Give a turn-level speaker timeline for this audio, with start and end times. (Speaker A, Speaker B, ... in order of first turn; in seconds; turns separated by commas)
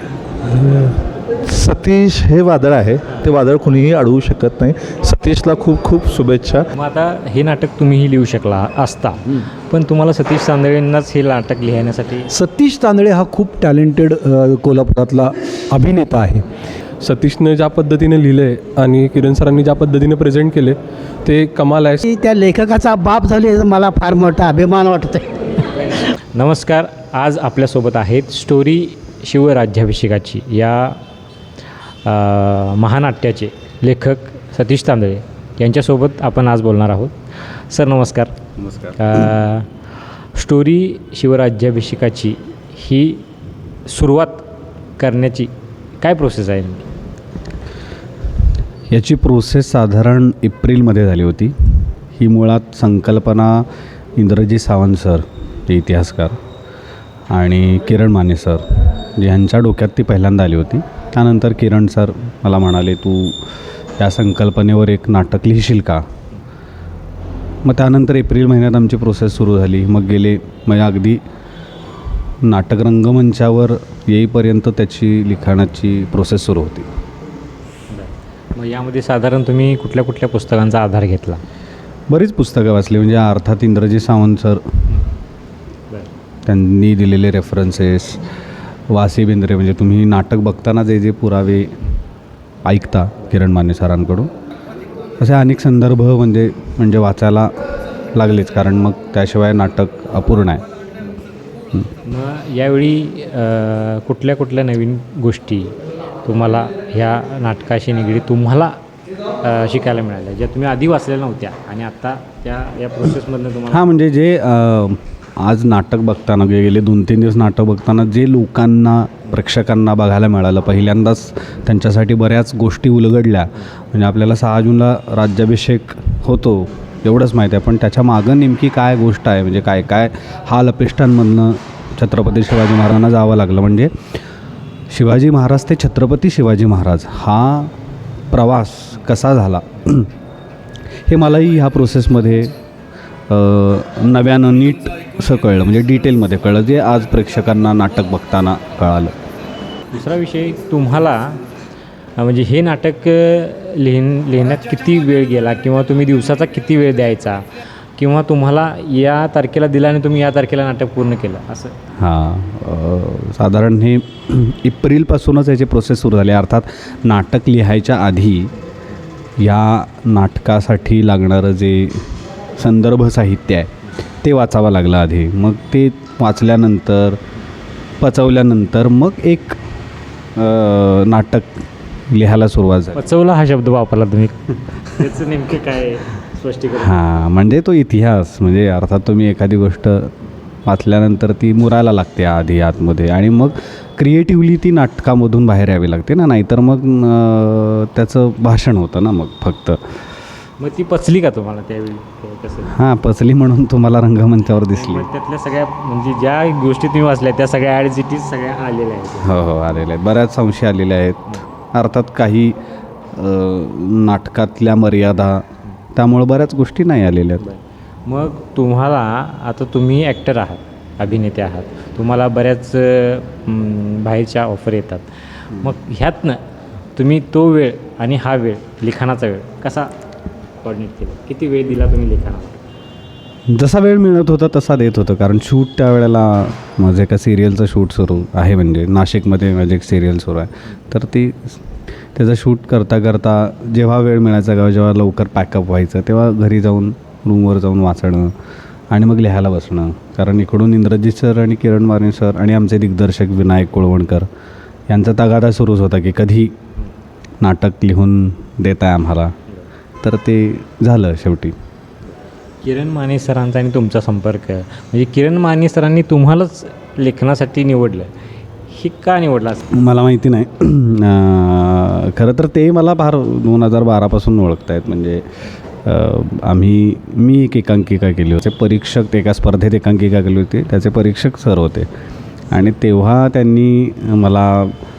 Speaker A: 0.5-6.7, Speaker B: 6.7-12.3, Speaker C: 12.3-16.5, Speaker D: 17.0-22.0, Speaker E: 22.0-25.3, Speaker B: 26.3-31.0, Speaker B: 32.0-37.1, Speaker B: 37.7-38.3, Speaker F: 38.6-39.0, Speaker B: 39.0-39.7, Speaker B: 40.3-43.2, Speaker B: 43.9-44.5, Speaker B: 45.0-46.9, Speaker F: 48.9-56.4, Speaker F: 57.3-63.4, Speaker F: 64.0-66.0, Speaker F: 67.6-71.2, Speaker F: 72.4-76.9, Speaker B: 77.9-81.4, Speaker F: 82.1-84.6, Speaker F: 86.5-88.2, Speaker F: 88.9-91.7, Speaker F: 92.6-94.3, Speaker F: 95.2-97.5, Speaker F: 98.1-100.6, Speaker B: 102.0-108.8, Speaker B: 109.4-113.8, Speaker F: 113.7-133.9, Speaker F: 134.9-137.7, Speaker F: 138.3-140.1, Speaker F: 141.1-142.5, Speaker F: 143.3-149.1, Speaker B: 149.9-151.4, Speaker B: 152.2-157.4, Speaker B: 158.0-161.7, Speaker F: 162.0-168.5, Speaker F: 169.4-173.7, Speaker F: 174.2-177.2, Speaker F: 178.0-179.6, Speaker F: 180.3-183.0, Speaker B: 182.9-187.1, Speaker F: 186.8-190.1, Speaker F: 190.7-200.0, Speaker B: 200.6-202.7, Speaker F: 202.7-205.1, Speaker B: 204.7-209.4, Speaker F: 209.2-212.6, Speaker F: 213.1-217.4, Speaker B: 217.4-226.4, Speaker B: 226.9-229.9, Speaker B: 230.6-232.6, Speaker F: 233.5-241.6, Speaker F: 242.1-248.3, Speaker F: 248.9-254.3, Speaker F: 254.9-256.5, Speaker F: 257.4-259.3, Speaker F: 260.0-261.5, Speaker B: 262.6-268.1, Speaker B: 268.7-269.6, Speaker F: 269.7-275.2, Speaker F: 275.8-281.9, Speaker F: 282.5-284.7